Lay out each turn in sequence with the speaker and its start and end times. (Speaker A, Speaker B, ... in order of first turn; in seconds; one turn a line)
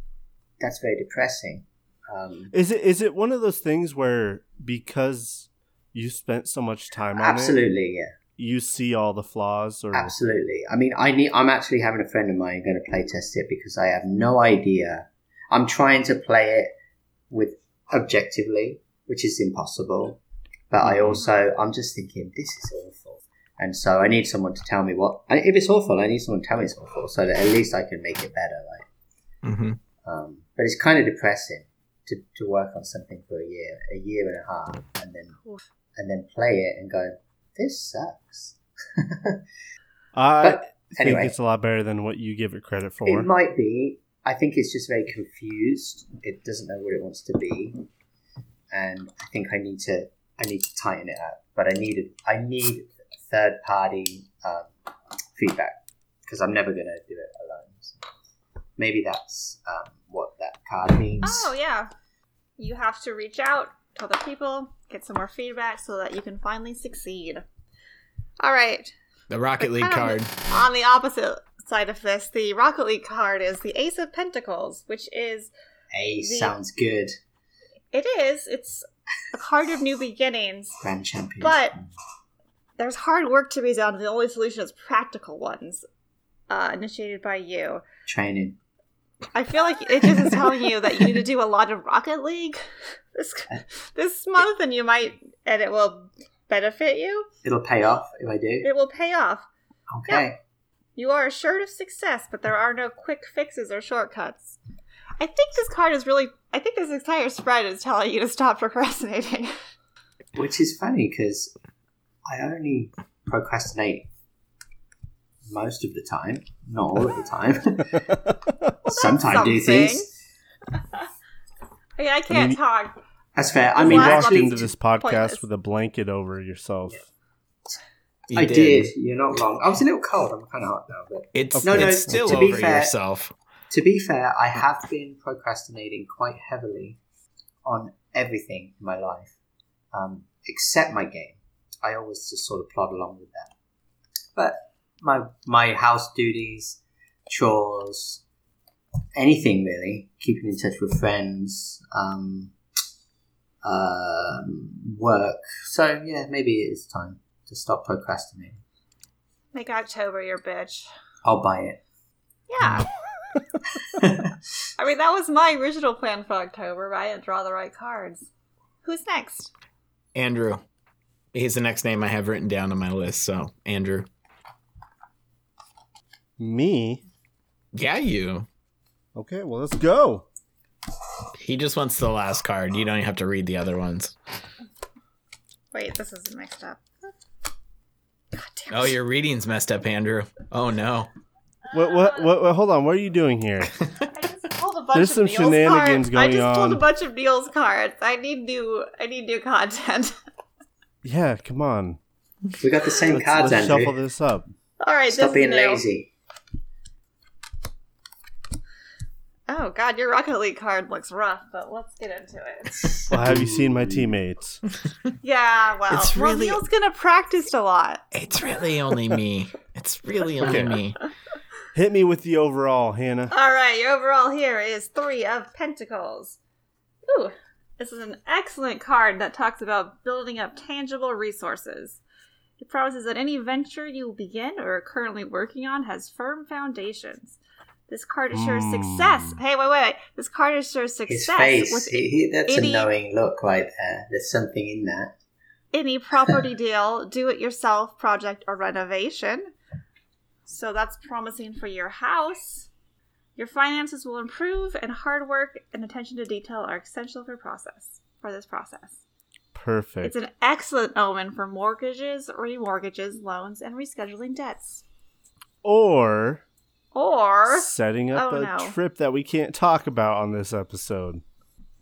Speaker A: 0.6-2.5
Speaker B: 2.5-7.6
Speaker A: 7.2-8.1
Speaker B: 8.4-10.1
Speaker A: 9.9-16.7
Speaker A: 17.3-28.9
Speaker C: 20.8-21.2
Speaker C: 29.4-29.8
Speaker A: 30.0-35.4
Speaker A: 36.0-39.4
Speaker B: 40.1-43.3
Speaker A: 40.4-41.3
Speaker A: 43.0-47.8
Speaker A: 48.7-54.7
Speaker A: 55.4-58.0
Speaker A: 58.8-61.5
Speaker D: 61.2-61.9
Speaker D: 62.6-67.4
Speaker D: 68.4-68.9
Speaker C: 69.3-70.3
Speaker D: 69.6-75.5
Speaker A: 75.9-77.2
Speaker D: 76.2-76.5
Speaker D: 77.9-80.8
Speaker A: 80.8-81.9
Speaker D: 81.4-81.7
Speaker D: 82.8-85.8
Speaker D: 86.5-87.8
Speaker A: 88.0-88.6
Speaker D: 89.3-92.6
Speaker D: 93.1-97.3
Speaker A: 97.4-98.7
Speaker D: 98.6-99.5
Speaker A: 99.9-100.4
Speaker D: 101.0-104.6
Speaker D: 105.2-109.5
Speaker A: 110.3-111.5
Speaker A: 112.2-114.1
Speaker A: 115.5-118.2
Speaker D: 118.8-120.1
Speaker A: 118.8-120.1
Speaker D: 122.0-123.0
Speaker B: 122.3-122.6
Speaker A: 123.3-124.7
Speaker D: 123.7-125.4
Speaker B: 123.8-127.0
Speaker C: 128.3-128.9
Speaker A: 128.3-132.9
Speaker C: 131.3-133.3
Speaker B: 131.6-132.5
Speaker A: 133.7-137.0
Speaker A: 137.6-139.3
Speaker A: 139.9-143.5
Speaker A: 144.3-148.2
Speaker A: 149.1-152.5
Speaker A: 153.6-158.6
Speaker D: 159.5-160.9
Speaker A: 161.2-161.8
Speaker D: 162.5-162.9
Speaker A: 163.9-164.3
Speaker D: 164.8-168.3
Speaker D: 168.8-169.5
Speaker C: 170.1-170.6
Speaker C: 171.3-174.1
Speaker B: 176.4-177.0
Speaker C: 177.7-178.5
Speaker B: 179.2-180.2
Speaker C: 181.4-184.1
Speaker D: 185.7-186.8
Speaker D: 188.3-188.9
Speaker C: 188.7-191.1
Speaker B: 191.7-193.7
Speaker D: 191.9-192.2
Speaker D: 194.1-200.2
Speaker B: 194.9-196.8
Speaker B: 201.0-202.0
Speaker A: 202.6-204.0
Speaker B: 203.1-204.5
Speaker D: 204.8-205.8
Speaker A: 205.1-206.1
Speaker D: 209.5-213.0
Speaker A: 212.8-214.0
Speaker B: 213.1-214.6
Speaker D: 215.2-218.0
Speaker C: 215.9-216.6
Speaker C: 218.1-221.0
Speaker B: 220.4-220.8
Speaker B: 221.7-223.3
Speaker D: 223.3-226.4
Speaker D: 227.1-232.0
Speaker D: 232.6-237.4
Speaker D: 237.9-242.9
Speaker B: 238.3-239.4
Speaker A: 241.1-245.1
Speaker D: 245.7-249.5
Speaker D: 250.4-252.7
Speaker D: 253.3-259.0
Speaker B: 259.5-260.1
Speaker D: 260.0-264.8
Speaker B: 265.6-266.4
Speaker D: 266.9-268.8
Speaker B: 267.5-271.2